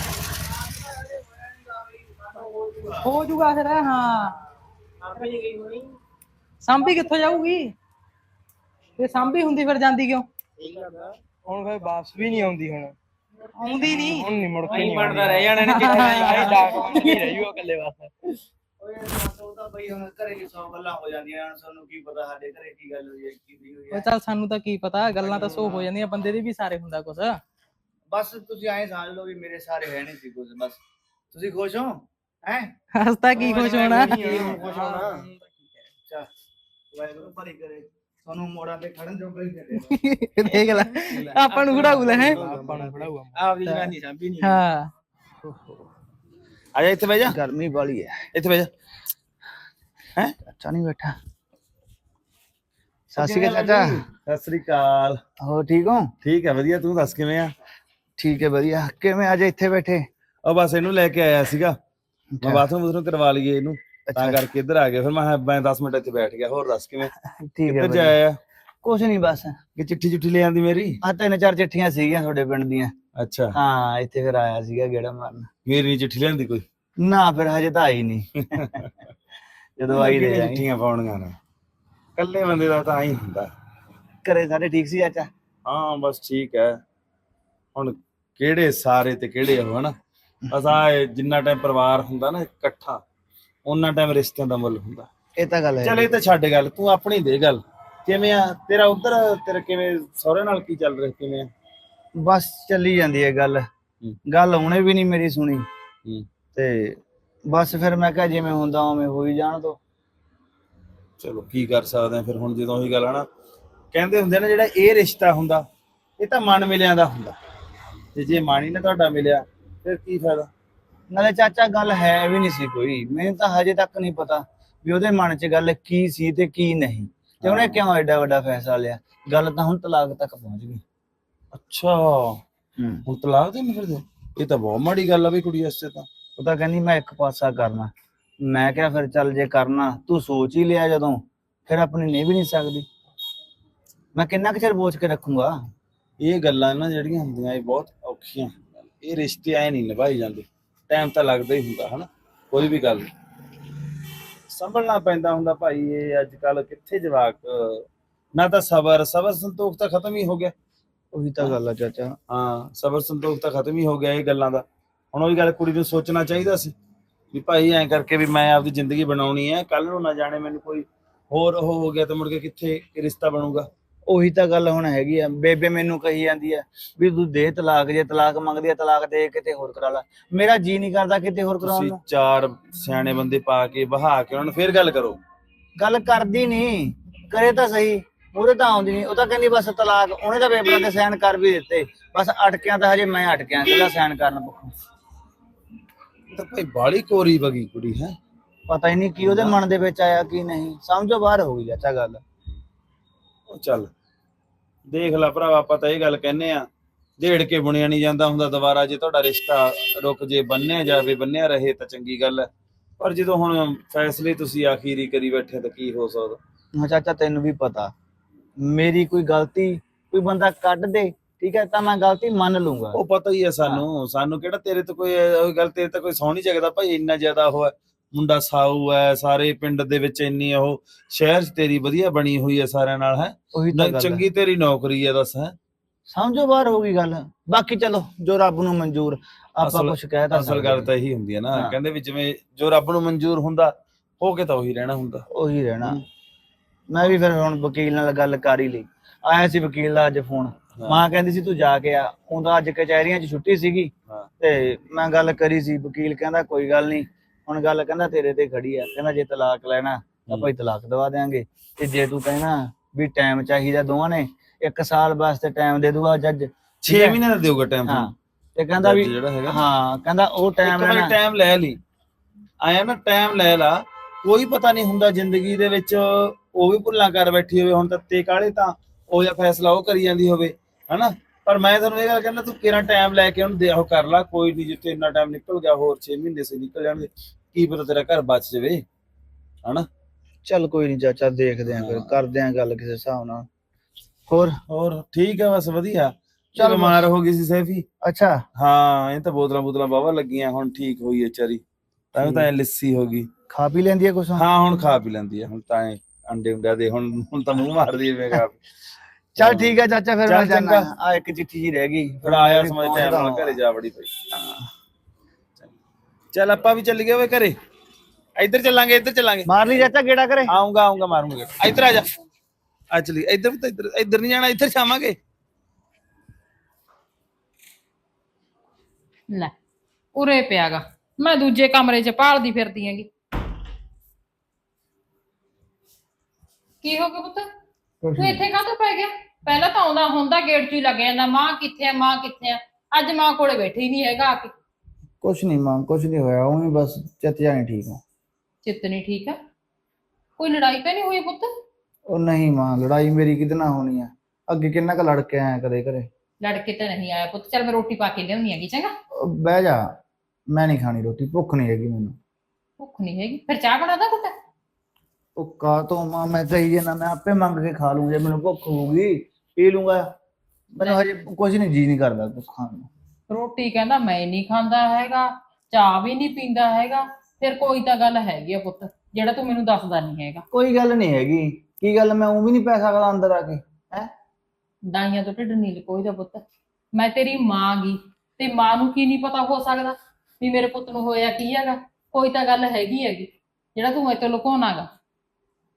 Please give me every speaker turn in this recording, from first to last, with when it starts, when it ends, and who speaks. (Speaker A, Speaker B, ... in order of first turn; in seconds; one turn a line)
Speaker A: 0.9-3.1
Speaker B: 3.1-4.3
Speaker A: 5.0-5.9
Speaker B: 6.7-7.7
Speaker B: 9.0-10.3
Speaker A: 10.6-11.1
Speaker C: 11.4-12.9
Speaker B: 13.6-14.2
Speaker C: 13.7-18.1
Speaker A: 13.8-17.4
Speaker B: 15.7-17.0
Speaker D: 18.8-24.1
Speaker B: 23.9-27.4
Speaker D: 25.1-25.9
Speaker C: 25.4-25.6
Speaker D: 28.1-30.8
Speaker D: 31.3-32.7
Speaker B: 33.0-34.1
Speaker A: 33.4-35.7
Speaker D: 33.4-35.2
Speaker C: 33.5-34.8
Speaker D: 36.9-40.0
Speaker B: 39.9-42.4
Speaker C: 40.5-43.9
Speaker A: 41.0-44.6
Speaker D: 41.7-43.0
Speaker B: 44.4-44.9
Speaker E: 46.7-47.4
Speaker D: 47.2-48.2
Speaker E: 48.3-48.7
Speaker D: 50.5-51.2
Speaker D: 53.1-54.0
Speaker E: 53.2-55.2
Speaker D: 55.4-56.1
Speaker E: 56.2-57.5
Speaker D: 58.2-60.1
Speaker E: 60.4-61.8
Speaker D: 62.3-62.6
Speaker E: 62.4-67.1
Speaker D: 64.1-64.4
Speaker D: 67.4-68.2
Speaker E: 67.7-68.4
Speaker D: 68.8-69.6
Speaker E: 69.8-71.0
Speaker D: 71.0-72.9
Speaker E: 73.2-73.6
Speaker D: 73.5-75.5
Speaker E: 75.7-76.6
Speaker D: 77.0-78.8
Speaker D: 79.8-80.6
Speaker E: 79.9-81.4
Speaker E: 82.2-83.5
Speaker D: 84.2-85.3
Speaker E: 85.7-86.8
Speaker E: 87.7-89.9
Speaker E: 90.5-93.0
Speaker E: 93.7-95.1
Speaker D: 95.4-96.1
Speaker E: 95.8-101.5
Speaker D: 102.2-103.7
Speaker D: 104.3-105.7
Speaker D: 106.5-109.8
Speaker E: 111.2-113.2
Speaker E: 113.9-115.6
Speaker E: 116.2-117.3
Speaker E: 118.1-120.5
Speaker D: 121.1-130.8
Speaker E: 127.4-127.8
Speaker E: 131.5-132.4
Speaker D: 132.8-133.0
Speaker E: 133.1-136.1
Speaker D: 136.4-142.8
Speaker D: 144.1-145.7
Speaker E: 146.2-153.1
Speaker E: 154.5-160.5
Speaker D: 161.1-162.2
Speaker E: 162.3-166.7
Speaker E: 167.3-173.7
Speaker D: 174.1-181.9
Speaker E: 181.6-185.2
Speaker D: 185.8-194.7
Speaker E: 196.3-198.2
Speaker D: 198.7-202.2
Speaker E: 199.2-199.6
Speaker E: 203.5-203.9
Speaker E: 204.9-206.7
Speaker E: 207.2-212.5
Speaker E: 213.0-216.4
Speaker D: 216.7-217.9
Speaker D: 218.6-223.0
Speaker E: 222.9-235.5
Speaker D: 233.5-234.2
Speaker D: 236.1-240.9
Speaker E: 239.6-245.2
Speaker D: 245.3-246.0
Speaker D: 246.9-267.2
Speaker E: 250.8-251.0
Speaker E: 266.8-268.1
Speaker D: 267.9-271.1
Speaker E: 268.8-269.6
Speaker E: 270.6-271.8
Speaker E: 272.6-288.8
Speaker D: 290.4-293.5
Speaker E: 291.7-292.1
Speaker D: 294.3-294.6
Speaker E: 294.7-297.9
Speaker D: 296.6-297.0
Speaker D: 298.0-298.4
Speaker E: 298.6-301.6
Speaker E: 302.1-303.3
Speaker D: 302.2-302.5
Speaker D: 303.5-304.4
Speaker E: 304.4-308.6
Speaker E: 309.4-310.9
Speaker D: 309.4-313.6
Speaker E: 312.2-314.1
Speaker D: 314.3-314.7
Speaker E: 316.3-317.6
Speaker E: 318.4-319.5
Speaker D: 319.5-320.5
Speaker E: 320.5-322.1
Speaker E: 322.9-325.2
Speaker F: 330.1-333.1
Speaker F: 336.8-337.5
Speaker D: 338.0-338.4
Speaker F: 338.2-344.5
Speaker D: 345.2-348.0
Speaker F: 348.6-349.4
Speaker F: 350.4-351.5
Speaker D: 352.1-356.1
Speaker F: 356.4-358.9
Speaker D: 359.1-359.9
Speaker D: 360.5-362.1
Speaker F: 362.8-364.3
Speaker D: 365.4-370.1
Speaker D: 370.7-372.9
Speaker F: 373.3-380.4
Speaker D: 380.5-384.1
Speaker F: 384.9-394.9